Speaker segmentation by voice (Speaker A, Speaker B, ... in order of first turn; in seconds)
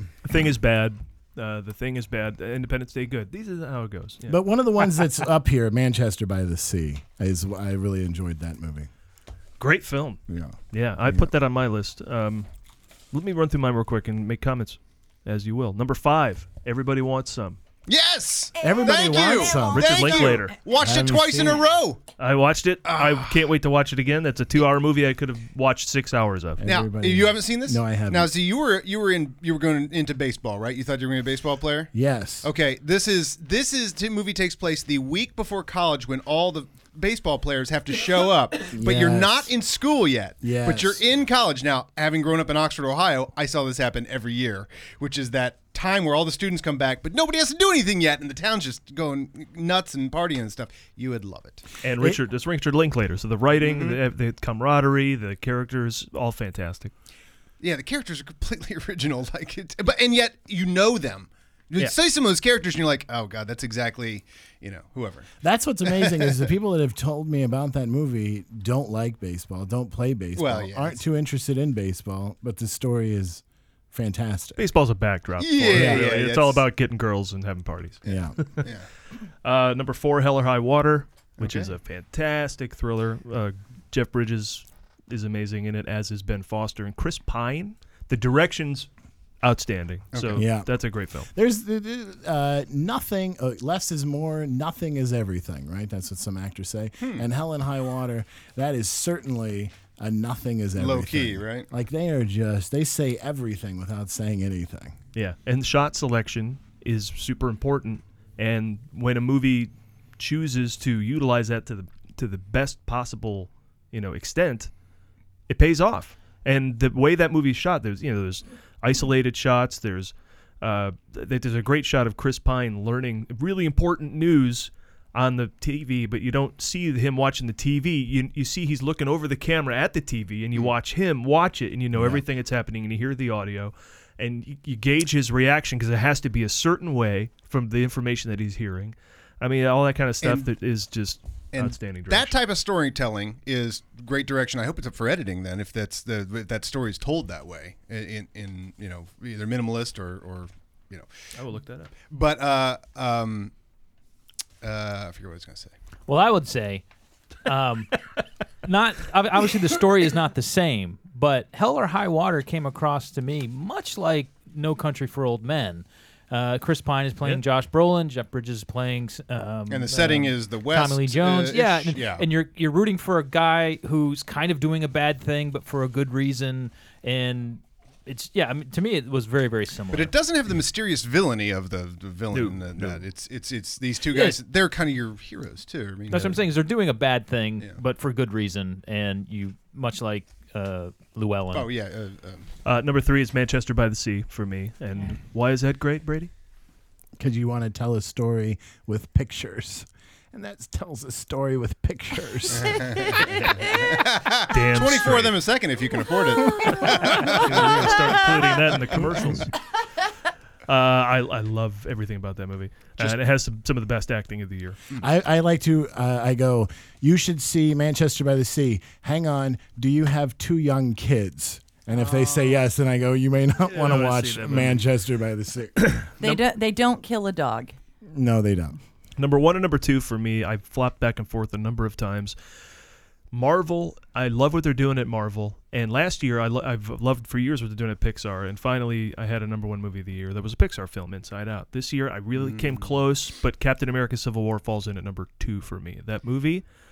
Speaker A: 0.2-4.4, 9.6-10.2, 10.7-12.5, 13.1-17.6, 19.7-20.6, 22.2-26.6, 51.8-56.9, 74.6-78.7, 79.4-88.9, 89.4-91.3, 105.2-114.7, 115.5-142.3, 151.4-151.9, 192.7-196.3, 204.5-205.4, 206.7-209.5, 210.7-214.8, 223.7-224.9, 225.8-226.4, 229.2-232.3, 233.3-246.6
Speaker B: 4.3-8.9, 10.3-11.3, 18.6-20.1, 20.7-21.6, 26.6-28.3, 31.9-32.5, 38.7-39.5, 40.4-41.0, 65.4-74.7, 75.7-76.1, 78.0-78.4, 90.4-90.7, 91.3-105.0, 131.9-132.2, 197.2-202.8, 215.0-226.0, 228.1-228.8
Speaker C: 17.9-22.0, 22.9-23.3, 26.6-31.9, 32.4-51.6, 53.5-54.0, 57.6-65.3, 65.9-66.5, 70.4-71.0, 75.4-76.7, 81.4-81.7, 90.1-90.4, 100.8-101.7, 140.2-140.5, 141.5-151.1, 152.1-153.5, 154.6-155.7, 169.7-172.3, 179.9-186.4, 191.5-192.5, 202.5-208.1, 221.9-222.6, 242.3-242.9
Speaker D: 18.6-20.3, 226.2-227.8
Speaker E: 156.1-156.8, 157.4-157.9, 158.6-180.1, 184.1-184.4, 186.1-191.7